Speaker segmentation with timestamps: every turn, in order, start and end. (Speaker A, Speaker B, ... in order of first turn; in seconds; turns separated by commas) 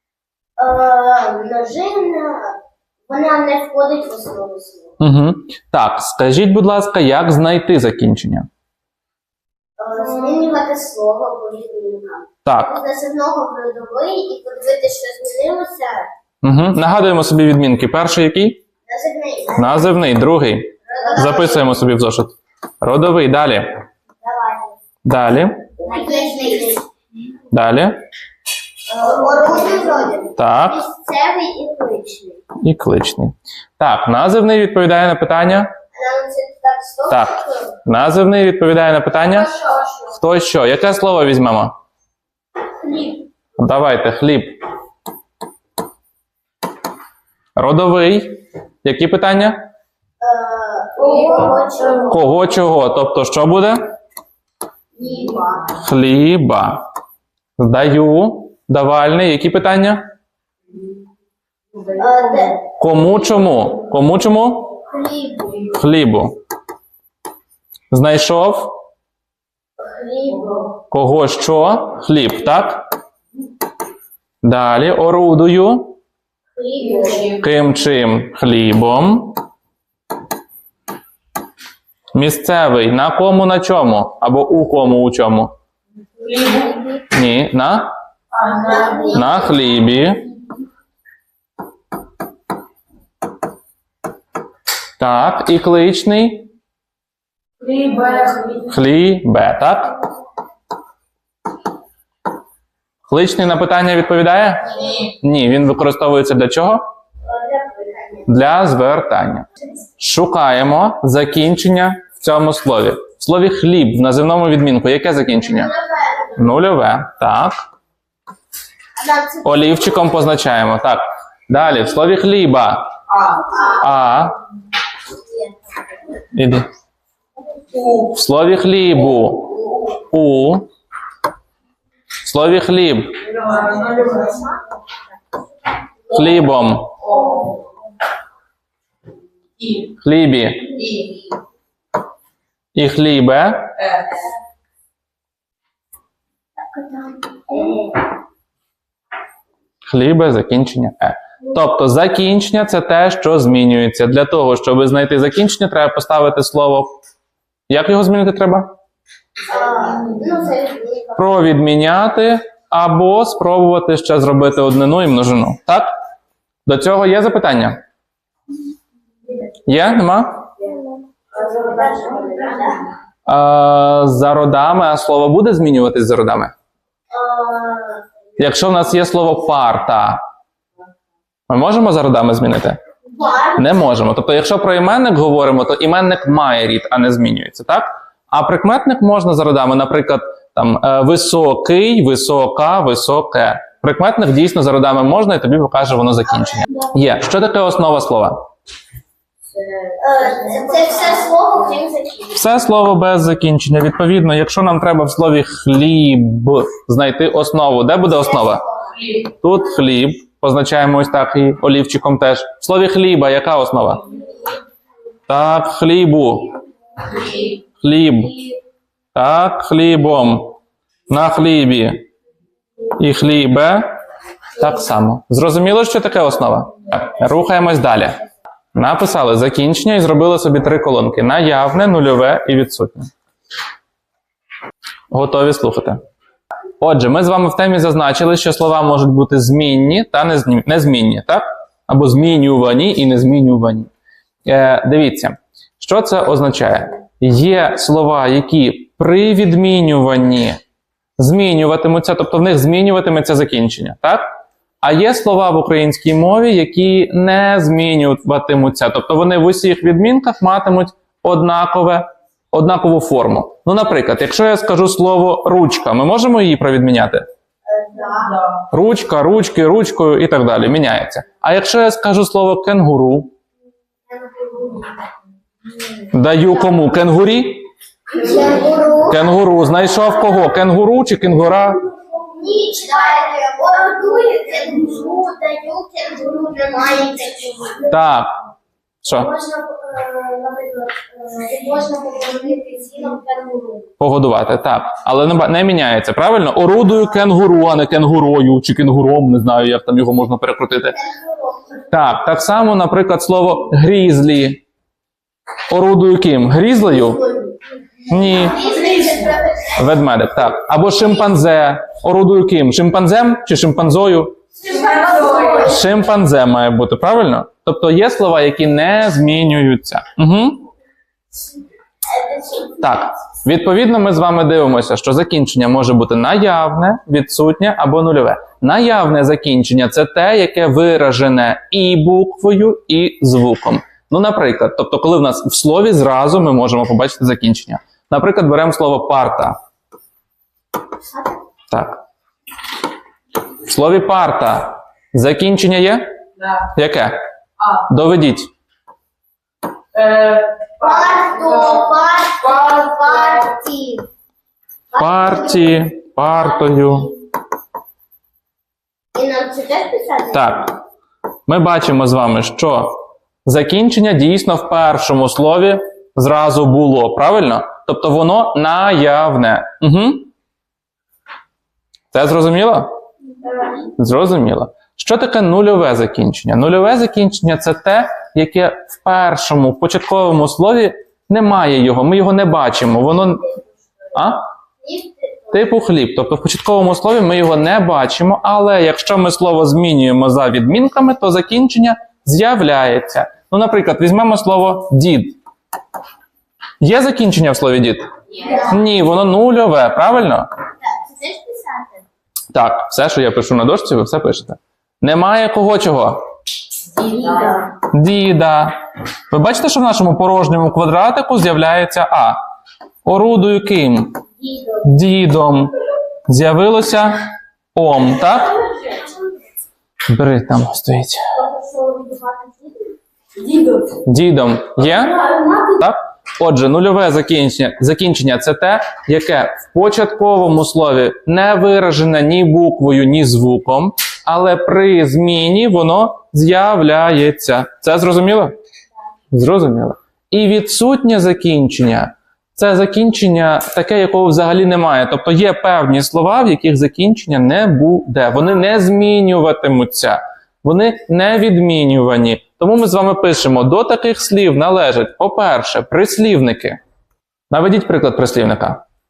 Speaker A: 0.6-2.6, Speaker A: 3.1-4.9, Speaker B: 5.0-8.5, Speaker A: 9.8-16.1, Speaker B: 16.4-18.6, Speaker A: 18.9-20.0, Speaker B: 19.5-23.8, Speaker A: 20.8-21.7, Speaker A: 24.2-24.7, Speaker B: 25.0-25.7, Speaker A: 25.8-26.8, Speaker B: 27.5-28.0, Speaker A: 28.9-32.4, Speaker B: 30.4-30.8, Speaker B: 32.6-35.7, Speaker A: 35.9-37.7, Speaker B: 37.1-39.5, Speaker A: 39.2-40.1, Speaker B: 40.1-41.7, Speaker A: 42.8-43.2, Speaker B: 43.6-44.6, Speaker B: 47.5-49.7, Speaker A: 50.2-52.3, Speaker B: 52.1-53.9, Speaker A: 54.9-55.8, Speaker B: 55.7-56.8, Speaker B: 57.6-60.0, Speaker A: 61.9-62.6, Speaker B: 62.8-64.8, Speaker A: 64.8-65.8, Speaker B: 65.7-66.4, Speaker B: 67.9-68.7, Speaker A: 69.8-70.7, Speaker B: 70.9-72.8, Speaker B: 74.4-76.0, Speaker A: 76.5-77.4, Speaker B: 77.3-79.4, Speaker B: 82.1-85.5, Speaker C: 86.2-86.8, Speaker B: 87.0-87.9, Speaker C: 88.3-89.1, Speaker A: 88.5-89.6, Speaker B: 89.1-90.3, Speaker B: 95.0-96.5, Speaker C: 97.6-98.7, Speaker B: 98.6-100.0, Speaker B: 103.1-106.8, Speaker A: 107.2-108.3, Speaker B: 108.3-109.5, Speaker B: 110.0-115.7, Speaker A: 115.4-116.5, Speaker B: 116.3-117.6, Speaker A: 119.0-120.2, Speaker B: 119.4-123.0, Speaker C: 123.1-123.5, Speaker A: 123.3-124.1, Speaker B: 123.8-124.4, Speaker A: 125.1-125.5, Speaker B: 126.3-126.7, Speaker C: 127.7-128.1, Speaker B: 127.9-130.7, Speaker B: 132.2-133.2, Speaker C: 133.3-134.5, Speaker A: 134.1-134.4, Speaker B: 136.1-136.9, Speaker C: 137.0-137.6, Speaker C: 139.6-139.9, Speaker B: 140.0-140.8, Speaker C: 140.8-141.2, Speaker B: 142.7-143.7, Speaker C: 143.8-144.3, Speaker A: 147.2-147.9, Speaker B: 149.8-157.0, Speaker B: 157.7-158.7, Speaker A: 159.5-161.2, Speaker B: 161.2-165.9, Speaker B: 166.7-167.8, Speaker B: 169.6-170.5, Speaker A: 171.3-172.8, Speaker B: 173.3-176.5, Speaker A: 177.1-178.0, Speaker B: 178.4-180.2, Speaker B: 181.5-182.8, Speaker A: 183.1-183.8, Speaker B: 183.6-198.4, Speaker A: 200.0-202.5, Speaker B: 202.3-208.6, Speaker A: 208.4-208.7, Speaker C: 208.9-209.2, Speaker B: 209.2-214.0, Speaker B: 215.3-216.5, Speaker B: 217.4-218.4, Speaker B: 219.1-220.6, Speaker B: 221.1-222.1, Speaker B: 223.0-223.9, Speaker B: 224.6-228.2, Speaker B: 228.7-233.1, Speaker B: 235.1-236.0, Speaker B: 236.8-243.9, Speaker B: 244.4-250.6, Speaker B: 251.2-254.3, Speaker B: 254.8-267.2, Speaker A: 267.6-268.5, Speaker B: 268.7-273.3, Speaker A: 274.1-275.0, Speaker B: 276.1-277.6, Speaker A: 278.1-279.3, Speaker B: 279.1-281.8, Speaker A: 282.2-287.9, Speaker B: 287.9-288.3, Speaker B: 289.0-289.3, Speaker A: 289.1-293.9, Speaker B: 294.0-301.0, Speaker A: 300.9-302.0, Speaker B: 301.9-304.6, Speaker B: 305.7-307.2, Speaker A: 306.9-307.6, Speaker B: 308.1-308.7, Speaker A: 308.1-309.8, Speaker B: 309.7-314.4, Speaker A: 314.6-315.8, Speaker C: 314.7-315.6, Speaker B: 315.5-320.7, Speaker A: 322.1-323.0, Speaker B: 322.8-339.6, Speaker B: 341.7-342.0, Speaker B: 343.6-346.1, Speaker C: 346.4-346.6, Speaker B: 346.7-347.2, Speaker B: 347.8-348.5, Speaker C: 349.9-351.8, Speaker A: 350.8-354.1, Speaker C: 352.4-353.4, Speaker A: 354.9-355.9, Speaker B: 354.9-357.1, Speaker A: 359.1-360.6, Speaker B: 360.3-360.7, Speaker B: 361.5-370.3, Speaker B: 372.1-372.9, Speaker B: 373.8-383.5, Speaker B: 384.1-384.5, Speaker A: 384.8-385.5, Speaker B: 385.5-395.4, Speaker B: 396.8-400.5, Speaker A: 398.4-398.7, Speaker A: 400.8-402.0, Speaker B: 402.5-406.2, Speaker A: 407.0-407.7, Speaker B: 407.8-408.8, Speaker B: 409.3-412.4, Speaker B: 413.0-414.2, Speaker A: 414.4-414.9, Speaker B: 414.8-415.7, Speaker B: 416.3-417.2, Speaker B: 417.7-418.6, Speaker B: 420.1-421.2, Speaker A: 421.4-423.8, Speaker B: 424.0-438.5, Speaker B: 439.3-456.8, Speaker B: 457.5-458.8